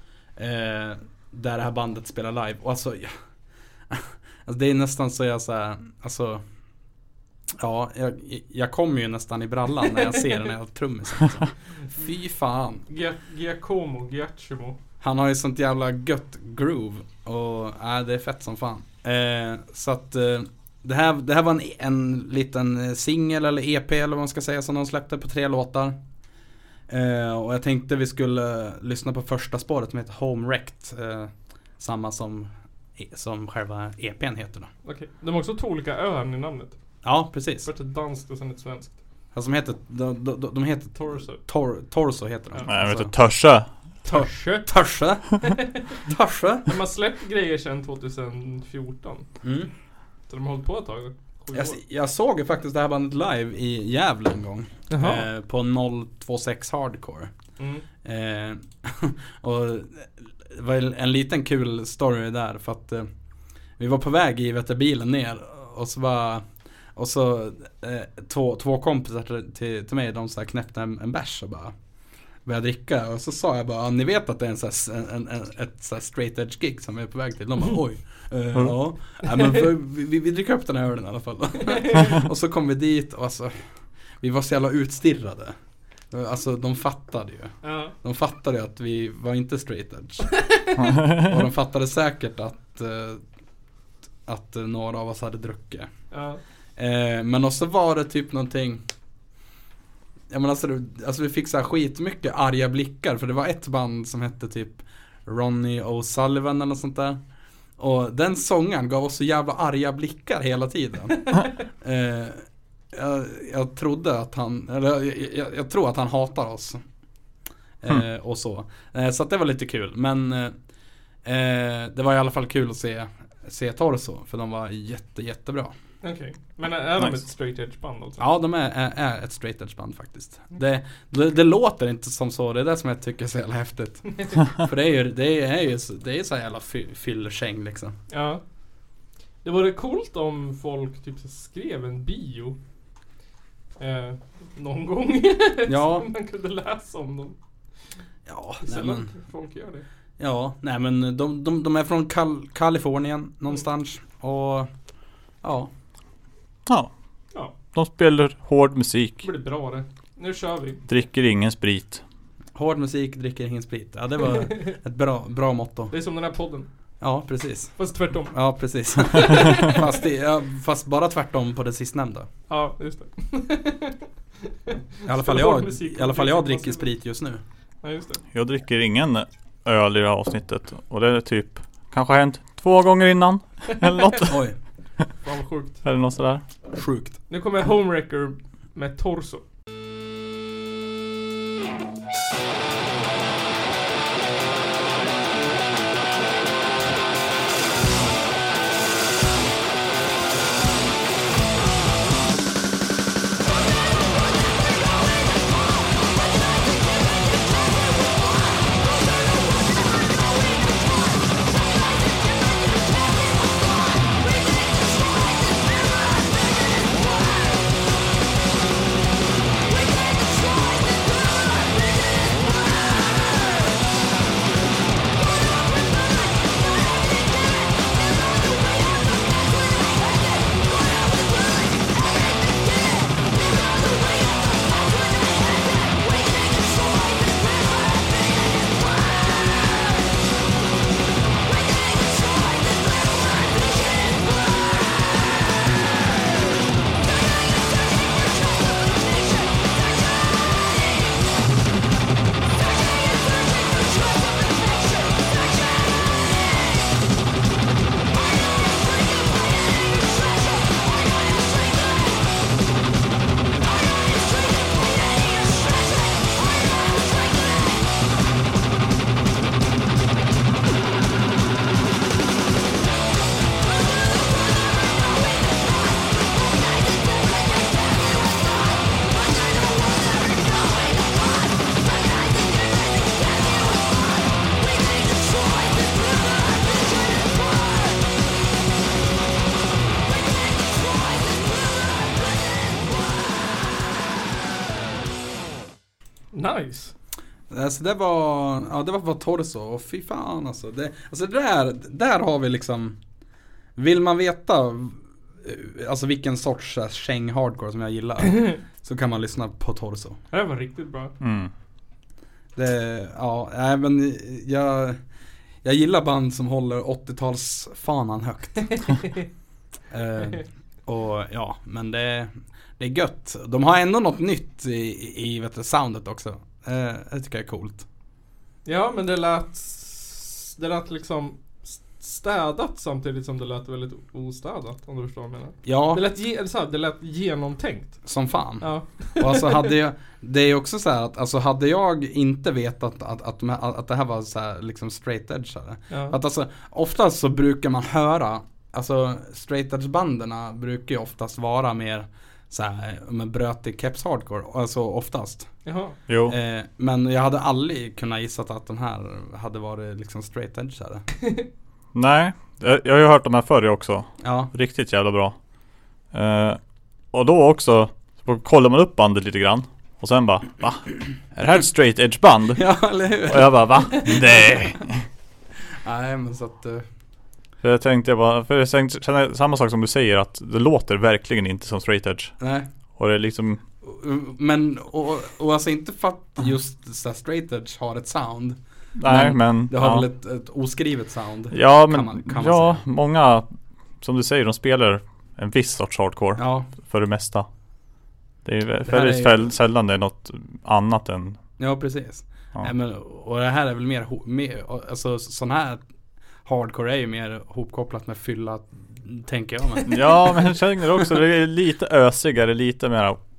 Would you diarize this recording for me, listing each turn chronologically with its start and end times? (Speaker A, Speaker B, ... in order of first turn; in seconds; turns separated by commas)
Speaker A: 0.4-3.1, Speaker A: 3.9-6.4, Speaker A: 7.5-12.8, Speaker B: 12.9-14.8, Speaker A: 15.0-25.9, Speaker A: 26.9-34.7, Speaker B: 34.8-36.8, Speaker A: 37.0-37.7, Speaker B: 37.6-39.0, Speaker A: 39.3-43.1, Speaker B: 40.9-41.4, Speaker C: 42.7-43.7, Speaker B: 44.0-44.7, Speaker A: 44.1-45.4, Speaker B: 45.4-45.8, Speaker A: 46.0-46.7, Speaker B: 46.7-49.2, Speaker A: 49.4-49.7, Speaker B: 50.3-51.8, Speaker A: 51.5-57.3, Speaker B: 54.9-55.2, Speaker B: 57.6-57.8, Speaker A: 58.0-63.1, Speaker A: 63.8-71.7, Speaker A: 72.4-83.6, Speaker B: 79.3-79.5, Speaker B: 81.6-82.2, Speaker A: 84.2-85.5, Speaker A: 86.1-90.3, Speaker B: 87.6-87.9, Speaker C: 90.8-91.3, Speaker A: 91.2-93.2, Speaker A: 94.3-95.9, Speaker B: 96.1-96.4, Speaker A: 96.8-98.8, Speaker A: 100.3-107.2, Speaker A: 107.8-116.8, Speaker A: 117.8-120.5, Speaker A: 121.2-125.7, Speaker B: 126.0-128.2, Speaker A: 128.2-137.9, Speaker B: 138.1-138.4, Speaker B: 139.4-142.6, Speaker B: 143.8-147.3, Speaker A: 145.7-146.1, Speaker A: 148.2-149.1, Speaker B: 148.6-149.8, Speaker A: 150.2-154.7, Speaker A: 155.4-155.7, Speaker C: 157.7-159.2, Speaker B: 159.2-160.8, Speaker C: 160.9-162.0, Speaker A: 162.5-165.9, Speaker B: 164.3-164.7, Speaker B: 165.9-166.7, Speaker A: 167.0-167.8, Speaker B: 167.8-168.3, Speaker A: 168.3-172.3, Speaker B: 169.0-169.8, Speaker B: 172.5-174.0, Speaker B: 174.7-176.9, Speaker A: 175.0-177.4, Speaker B: 177.8-178.2, Speaker C: 178.3-184.4, Speaker A: 184.3-184.6, Speaker B: 185.2-185.8, Speaker C: 185.8-186.4, Speaker A: 186.7-187.2, Speaker B: 187.3-189.4, Speaker B: 296.3-296.9, Speaker A: 297.5-303.0, Speaker A: 303.8-310.2, Speaker B: 310.3-311.1, Speaker C: 311.2-311.5, Speaker A: 312.5-315.0, Speaker A: 315.6-318.9, Speaker B: 318.7-319.3, Speaker A: 319.9-327.8, Speaker B: 328.6-338.0, Speaker A: 335.6-336.0, Speaker A: 338.0-355.5, Speaker B: 338.6-339.7, Speaker B: 345.9-346.1, Speaker B: 355.6-356.0, Speaker C: 356.1-356.4, Speaker A: 356.3-361.0, Speaker C: 361.9-365.4, Speaker A: 364.2-364.5, Speaker C: 366.1-366.6, Speaker C: 367.1-375.0, Speaker A: 372.5-374.2, Speaker A: 375.8-376.8, Speaker C: 377.6-382.3, Speaker A: 382.4-382.7, Speaker C: 383.0-383.6, Speaker A: 383.8-392.8, Speaker C: 389.0-390.1, Speaker C: 391.5-393.5, Speaker C: 394.0-397.5, Speaker A: 396.4-396.7, Speaker C: 398.4-401.4, Speaker A: 398.9-399.4, Speaker A: 401.6-405.8, Speaker A: 406.4-410.0, Speaker C: 409.9-413.2